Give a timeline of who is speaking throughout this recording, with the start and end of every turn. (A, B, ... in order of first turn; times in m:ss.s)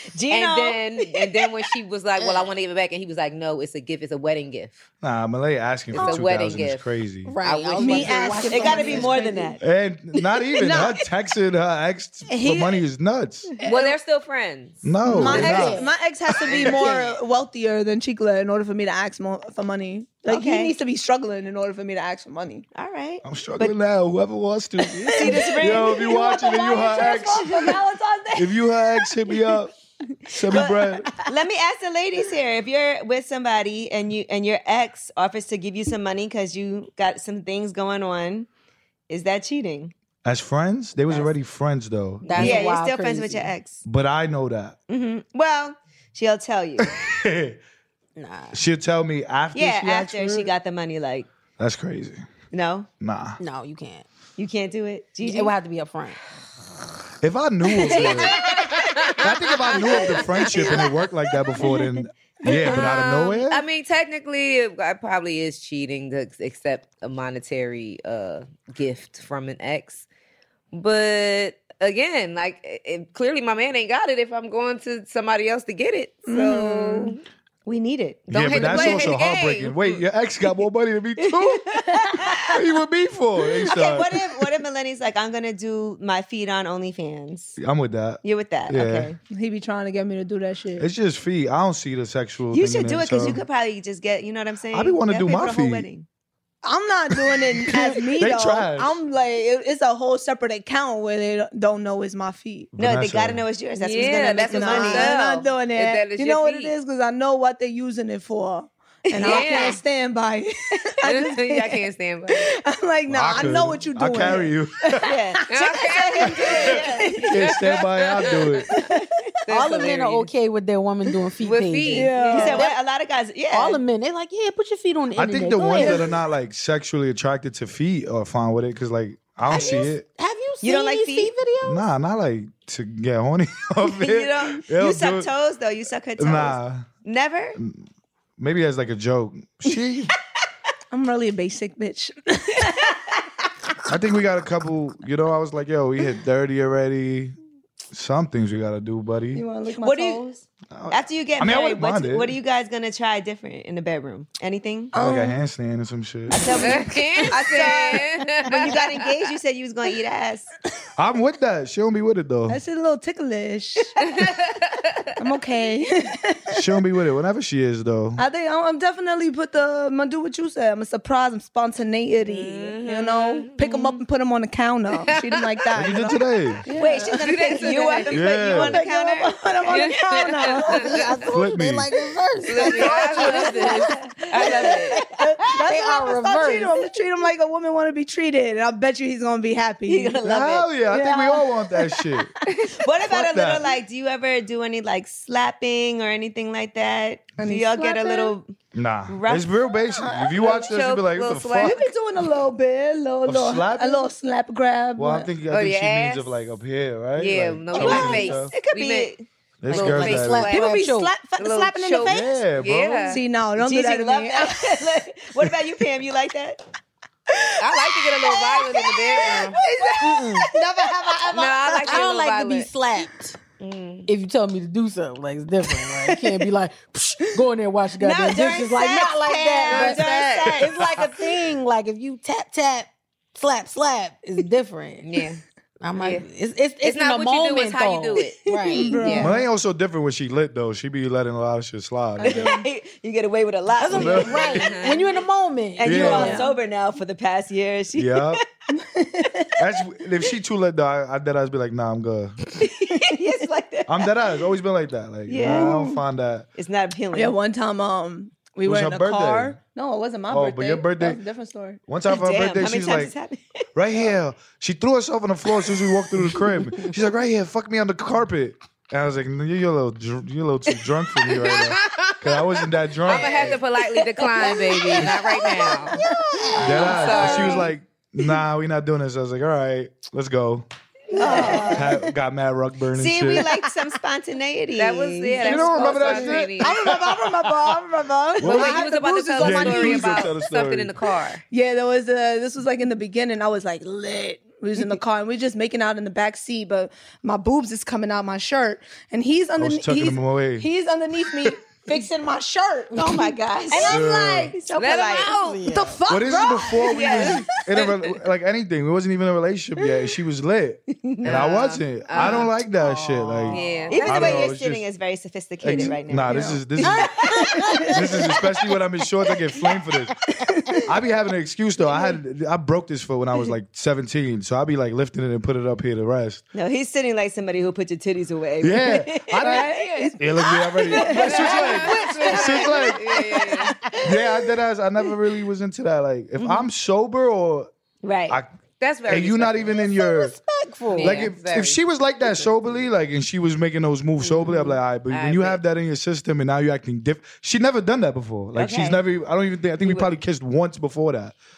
0:00.1-0:01.2 A
0:00.3-0:04.8 B
0:05.0-0:07.3 C
0:05.9-0:06.9 B
0:07.2-0:09.5 D
0:07.4-0:08.5 B
0:07.8-0:09.2 E
0:08.5-0:09.6 A
0:09.6-0:13.5 C
0:10.6-0:11.0 E
0:12.3-0:12.8 E
0:13.6-0:14.9 B
0:14.8-0:15.8 C
0:15.0-0:15.6 A
0:15.1-0:22.6 E
0:15.2-0:15.9 D
0:20.3-0:20.8 A
0:22.7-0:23.8 A
0:23.2-0:27.8 C
0:25.0-0:29.5 E
0:25.1-0:26.2 A
0:28.3-0:29.7 C
0:30.3-0:31.1 C
0:30.5-0:38.5 A
0:39.1-0:39.9 A
0:40.2-0:42.7 C
0:42.2-0:43.5 D
0:42.3-0:43.8 A
0:43.8-0:44.8 C
0:44.9-0:46.9 A
0:46.8-0:47.6 C
0:48.2-0:48.6 D
0:48.5-0:50.5 C
0:49.5-0:51.3 A
0:51.6-0:52.2 C
0:52.5-0:52.9 A
0:53.0-0:53.4 C
0:53.4-0:54.0 D
0:54.4-0:55.5 A
0:55.2-0:56.2 D
0:57.2-0:58.4 C
0:59.0-1:00.6 B
0:59.2-1:03.6 C
1:02.6-1:10.0 B
1:10.7-1:17.2 B
1:16.2-1:17.1 E
1:17.6-1:19.1 A
1:18.3-1:21.6 C
1:18.3-1:20.0 B
1:21.3-1:22.5 A
1:22.4-1:24.2 C
1:23.7-1:27.6 A
1:27.6-1:29.1 C
1:28.2-1:29.2 A
1:29.3-1:30.9 E
1:30.8-1:33.4 C
1:32.5-1:36.0 A
1:34.7-1:35.9 C
1:36.6-1:42.7 E
1:37.3-1:39.0 C
1:42.7-1:43.4 C
1:42.8-1:45.2 A
1:43.8-1:46.7 B
1:44.0-1:55.4 E
1:49.0-1:49.8 A
1:49.2-1:49.8 B
1:51.0-1:52.5 B
1:53.1-1:55.0 C
1:55.0-1:57.3 A
1:55.5-1:58.6 B
1:57.2-1:58.7 C
1:59.5-2:00.3 B
1:59.5-2:02.7 D
2:01.4-2:02.6 B
2:01.9-2:02.6 E
2:02.3-2:03.8 A
2:03.5-2:06.0 D
2:05.1-2:10.0 C
2:09.5-2:09.8 A
2:09.6-2:11.8 D
2:10.6-2:11.3 A
2:11.6-2:15.3 C
2:13.9-2:17.6 A
2:16.2-2:16.9 C
2:17.6-2:17.9 C
2:18.4-2:20.1 C
2:20.9-2:23.0 E
2:23.9-2:27.3 C
2:27.9-2:29.4 C
2:29.3-2:30.3 E
2:29.8-2:34.9 A
2:30.7-2:32.3 C
2:34.9-2:35.4 E
2:34.9-2:36.4 C
2:36.3-2:40.5 A
2:36.6-2:38.8 B
2:41.0-2:42.6 C
2:42.5-2:44.2 E
2:44.0-2:44.8 B
2:45.2-2:46.6 E
2:46.5-2:48.2 C
2:48.2-2:57.1 E
2:52.2-2:53.9 B
2:55.1-2:55.4 B
2:55.7-2:56.6 C
2:56.7-2:59.4 A
2:56.9-2:58.2 B
2:58.1-2:58.8 C
2:58.6-3:01.0 E
2:59.7-3:01.2 B
3:00.7-3:03.9 D
3:01.3-3:01.9 C
3:02.4-3:05.0 B
3:02.6-3:10.2 E
3:04.9-3:06.8 D
3:09.9-3:10.7 A
3:10.2-3:12.3 C
3:10.9-3:11.8 E
3:12.7-3:18.5 A
3:13.0-3:13.7 C
3:17.4-3:18.3 E
3:18.7-3:21.9 C
3:19.1-3:19.5 A
3:20.0-3:20.7 E
3:20.4-3:21.8 B
3:21.6-3:25.3 E
3:23.2-3:24.1 C
3:25.0-3:28.5 C
3:25.5-3:26.3 B
3:27.2-3:29.1 B
3:27.7-3:29.2 A
3:29.6-3:30.5 C
3:29.7-3:32.4 D
3:29.7-3:33.2 B
3:30.5-3:31.4 E
3:32.0-3:33.2 C
3:33.1-3:34.9 E
3:33.6-3:36.6 A
3:37.6-3:39.6 B
3:38.2-3:41.4 E
3:40.0-3:43.4 D
3:41.3-3:42.7 B
3:43.6-3:44.1 B
3:44.0-3:55.0 D
3:48.0-3:51.2 A
3:49.6-3:50.6 B
3:55.0-3:55.4 B
3:55.8-3:59.2 D
3:56.0-3:56.2 B
3:56.8-3:59.3 B
3:58.6-3:59.4 E
3:58.8-3:59.2 A
3:59.2-4:02.5 C
4:02.2-4:04.6 A
4:02.2-4:02.6 E
4:03.8-4:06.4 D
4:03.9-4:04.6 C
4:04.5-4:05.2 B
4:05.8-4:08.4 A
4:05.8-4:06.4 C
4:06.2-4:06.4 E
4:07.9-4:08.4 C
4:08.7-4:09.5 E
4:09.6-4:12.4 C
4:12.6-4:14.1 A
4:13.9-4:16.5 C
4:15.3-4:15.8 A
4:15.4-4:16.0 E
4:16.6-4:17.4 A
4:17.1-4:21.8 E
4:18.6-4:19.6 C
4:20.3-4:21.2 C
4:21.9-4:23.1 C
4:22.1-4:23.6 A
4:23.7-4:33.6 C
4:31.5-4:32.2 B
4:33.0-4:36.0 B
4:34.5-4:35.4 A
4:36.0-4:37.3 D
4:36.6-4:40.6 C
4:36.7-4:37.7 B
4:41.1-4:41.9 A
4:41.1-4:42.1 E
4:41.6-4:43.5 C
4:43.0-4:46.3 A
4:44.8-4:46.9 B
4:45.4-4:47.7 C
4:45.6-4:50.3 E
4:48.4-4:48.8 C
4:48.4-4:51.4 B
4:48.4-4:49.4 A
4:49.4-4:50.9 C
4:51.5-5:03.1 E
4:59.6-5:00.7 C
5:02.9-5:05.5 A
5:03.7-5:04.0 D
5:03.8-5:04.4 E
5:03.8-5:04.5 C
5:04.7-5:05.6 B
5:05.3-5:06.6 D
5:05.7-5:07.4 E
5:06.1-5:14.8 C
5:06.9-5:07.4 A
5:07.8-5:08.1 B
5:11.0-5:11.5 A
5:11.2-5:12.5 B
5:12.2-5:14.0 D
5:13.5-5:14.2 B
5:13.9-5:18.2 A
5:15.6-5:17.1 C
5:17.9-5:20.1 C
5:20.8-5:26.4 C
5:26.5-5:30.1 A
5:28.6-5:33.1 C
5:29.4-5:31.5 E
5:30.9-5:31.8 A
5:31.1-5:33.7 B
5:34.0-5:37.7 C
5:38.0-5:38.4 A
5:38.8-5:39.8 B
5:39.1-5:40.4 C
5:39.8-5:41.3 D
5:40.9-5:41.8 B
5:41.0-5:51.3 C
5:45.1-5:45.6 B
5:48.5-5:49.0 A